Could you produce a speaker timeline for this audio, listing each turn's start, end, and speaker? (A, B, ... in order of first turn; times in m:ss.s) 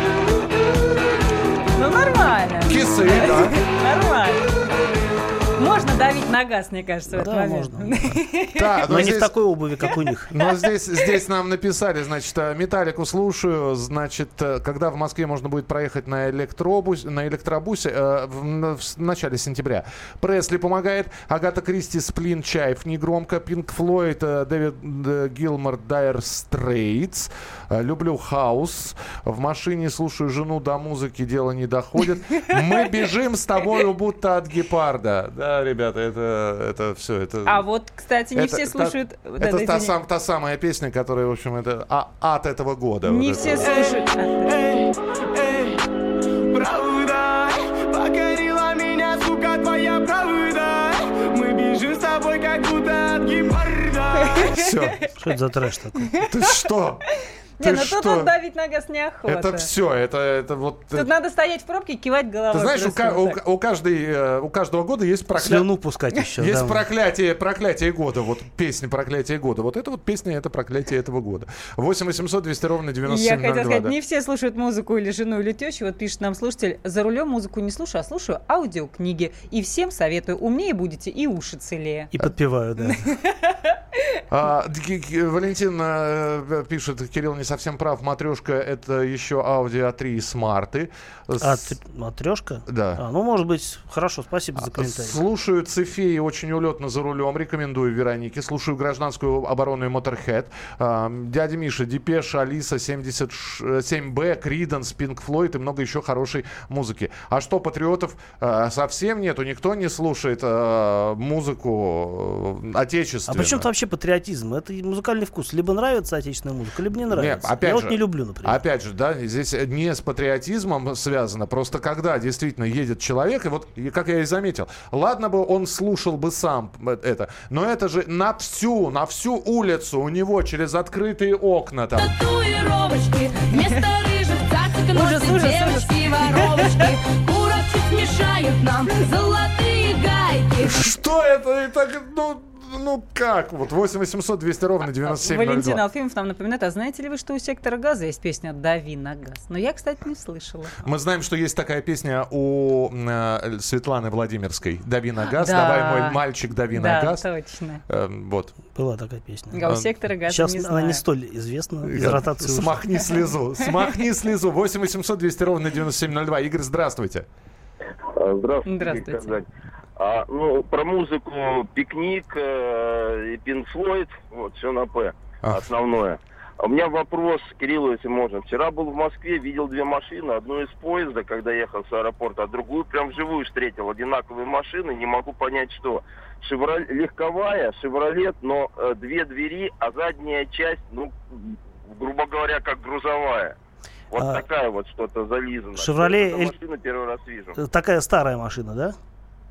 0:01.8-0:04.4 A
0:02.7-0:03.6 B
0:05.6-0:09.1 A
0:07.1-0:08.2 C
0:08.6-0:09.4 B
0:08.9-0:10.3 C
0:10.3-0:37.6 B
0:10.4-0:10.7 A
0:37.5-0:40.0 A
0:38.4-0:43.7 B
0:43.1-0:44.5 A
0:43.6-0:45.8 D
0:46.5-0:54.6 D
0:54.3-0:54.7 A
0:54.5-0:55.0 B
0:55.2-0:56.2 C
0:56.2-0:57.0 B
0:57.6-0:59.7 A
0:57.6-0:58.3 B
0:59.3-1:01.1 B
1:01.0-1:03.4 A
1:02.5-1:05.7 B
1:05.4-1:06.8 C
1:06.4-1:13.9 B
1:13.0-1:22.1 A
1:22.1-1:23.1 C
1:23.1-1:23.5 A
1:24.3-1:31.8 B
1:31.4-1:35.2 C
1:32.7-1:33.0 B
1:34.6-1:53.7 B
1:53.3-1:58.6 C
1:57.1-2:12.2 B
2:12.0-2:20.8 E
2:14.9-2:16.8 A
2:20.6-2:25.8 B
2:25.0-2:30.8 A
2:30.8-2:37.3 B
2:35.4-2:36.2 A
2:36.7-2:37.8 A
2:37.9-2:38.6 B
2:38.8-2:39.6 C
2:39.5-2:41.0 A
2:40.3-2:42.8 C
2:41.8-2:47.3 B
2:48.1-2:49.5 F
2:48.7-2:49.4 A
2:50.0-3:13.6 F
3:14.1-3:17.6 F
3:14.2-3:14.4 C
3:15.8-3:16.5 C
3:17.6-3:19.0 C